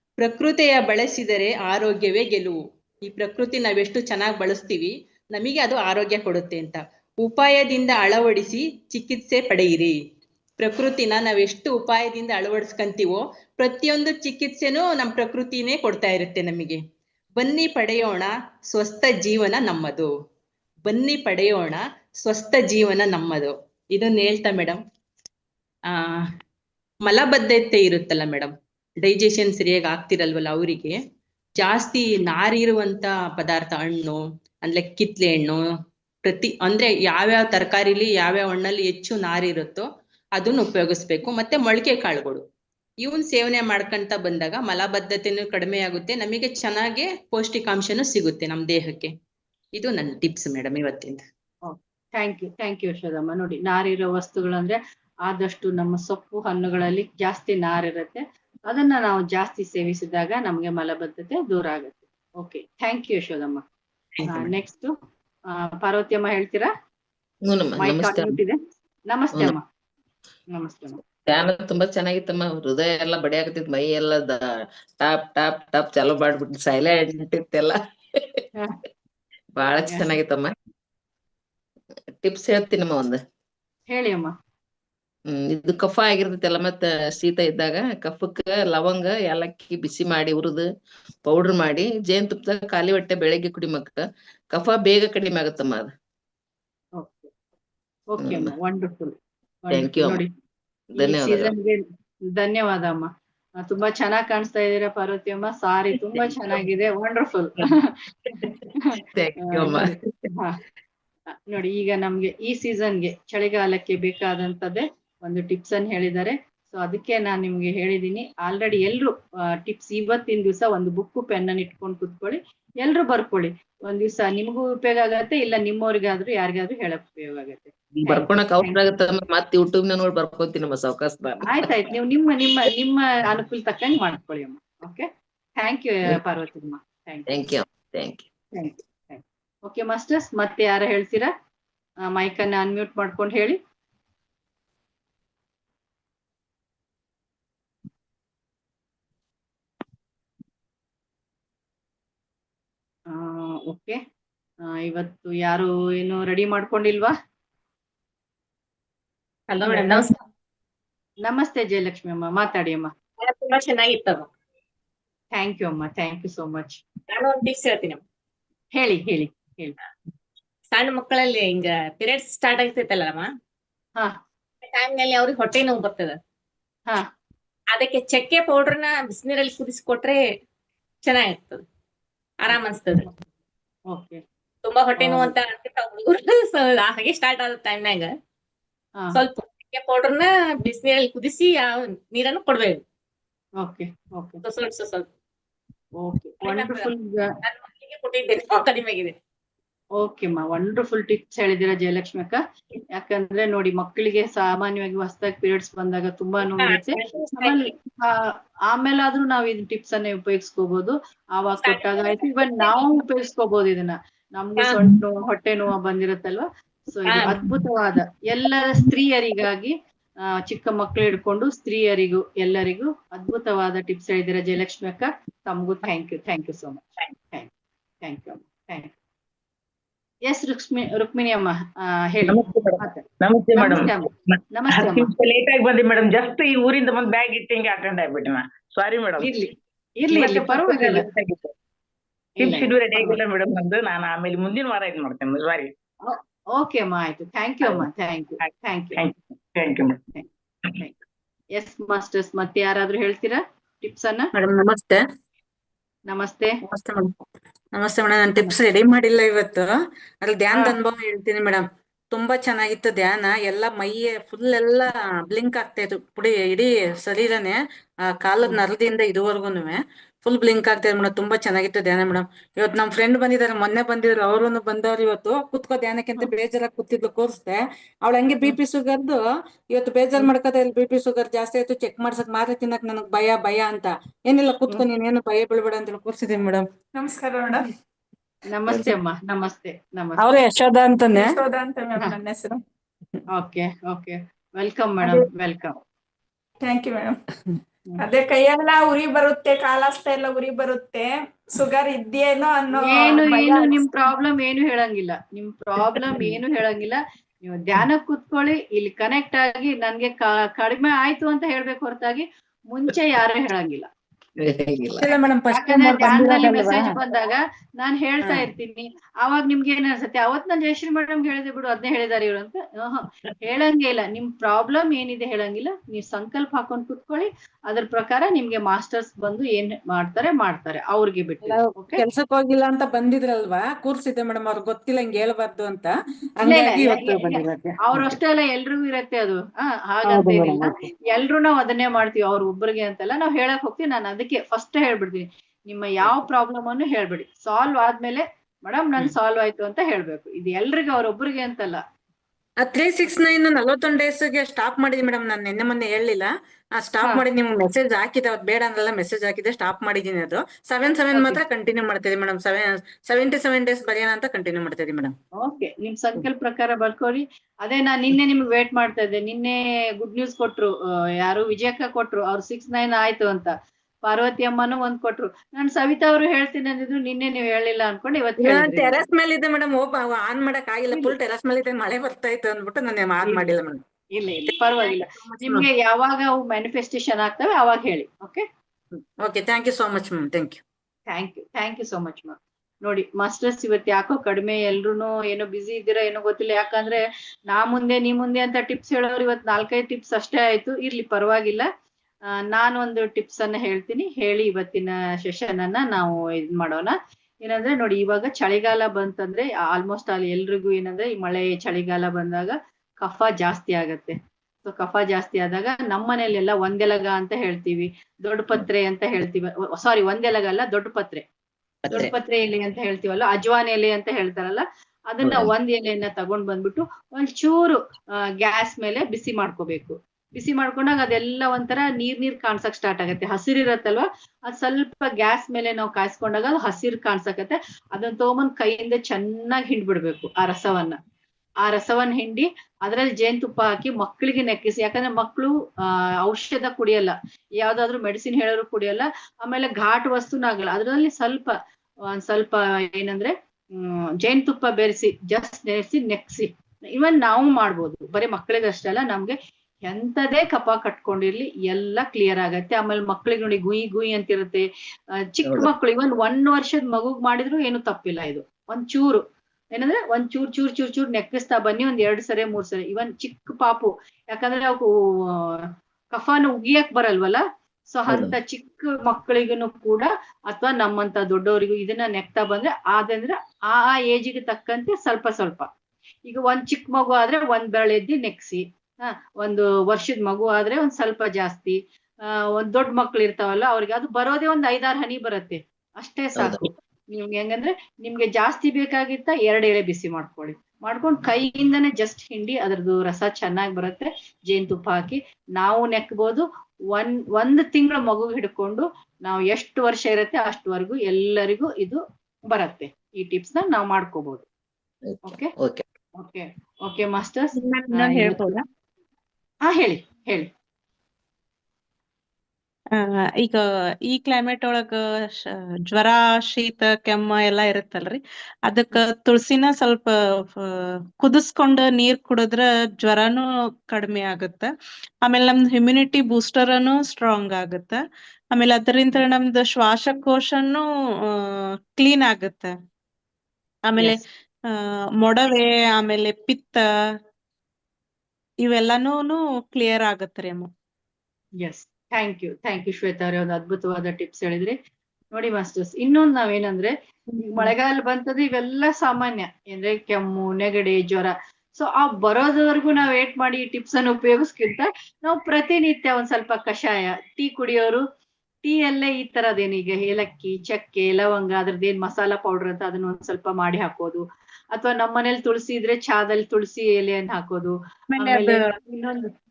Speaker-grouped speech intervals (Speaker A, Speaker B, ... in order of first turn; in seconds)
Speaker A: 0.2-10.0, 10.6-16.8, 17.4-20.1, 20.9-24.8, 25.9-26.3, 27.1-31.0, 31.6-35.6, 36.2-39.9, 40.4-42.4, 43.0-49.1, 49.8-51.2
Speaker B: 51.6-63.6, 64.3-64.9, 65.5-66.7, 67.8-68.6, 69.1-69.6, 70.5-71.0, 83.9-84.3, 97.0-97.3, 98.1-99.2, 99.7-100.3, 101.0-101.8, 102.3-103.1, 103.6-108.0, 109.5-110.6, 111.5-128.8, 131.5-137.3, 138.5-141.3, 142.1-143.6, 153.1-154.0, 154.6-157.1, 159.7-160.1, 161.2-162.9, 165.3-166.8, 168.8-169.8, 182.5-183.1, 183.9-184.2, 185.0-185.3, 193.6-194.4, 196.0-197.3, 200.0-202.4, 202.9-219.8, 220.4-227.5, 228.0-228.9, 230.3-233.0, 233.6-235.1, 239.2-241.1, 242.4-243.2, 246.1-249.0, 251.6-254.3, 256.1-256.6, 288.5-290.3, 293.3-295.8, 302.7-313.9, 315.5-332.0, 336.4-351.8, 361.1-361.4, 365.4-373.5, 374.1-379.0, 383.2-383.5, 384.2-388.4, 391.1-401.7, 402.5-406.9, 407.4-421.2, 421.9-427.8, 428.4-441.0, 441.6-445.5, 446.2-451.6, 452.1-464.7, 465.3-469.2, 469.8-475.6, 476.1-485.7, 486.3-514.5, 515.3-515.5, 516.2-518.5, 519.7-520.5, 551.6-554.8, 555.3-568.0, 568.6-579.3
Speaker C: 67.5-68.4, 71.2-74.5, 75.0-78.4, 79.5-80.5, 82.2-83.2, 85.3-90.7, 91.2-95.9, 98.2-98.5, 99.7-100.2, 101.0-101.5, 108.4-110.3, 128.0-131.7, 137.3-138.3, 314.4-315.1, 425.2-425.5, 465.4-465.7, 478.1-478.3, 496.4-496.7, 515.1-515.9
Speaker D: 159.5-160.2, 163.2-164.3, 167.1-168.0, 170.7-173.3, 174.6-176.2, 177.7-180.2, 181.0-181.6, 182.4-183.1, 184.6-188.1, 189.1-192.8, 194.4-195.1, 196.4-196.9, 197.4-199.2, 206.6-207.7, 211.6-213.0, 214.6-214.9, 217.1-217.5
Speaker E: 232.3-239.3, 240.1-241.5, 242.4-245.7, 248.9-250.0
Speaker F: 254.3-255.0, 256.6-257.1, 257.7-279.2, 279.7-286.7, 290.2-291.3, 315.0-316.9, 331.4-338.2, 340.1-340.8, 352.6-365.1, 378.4-383.8, 384.9-385.7, 389.2-390.6
Speaker G: 286.9-287.7, 291.1-292.6, 296.6-297.2, 298.0-303.9
Speaker H: 517.7-518.6, 523.0-534.7, 535.2-538.0, 538.5-540.8, 541.4-542.7, 543.9-546.8, 548.6-550.7, 557.4-557.7, 578.2-578.5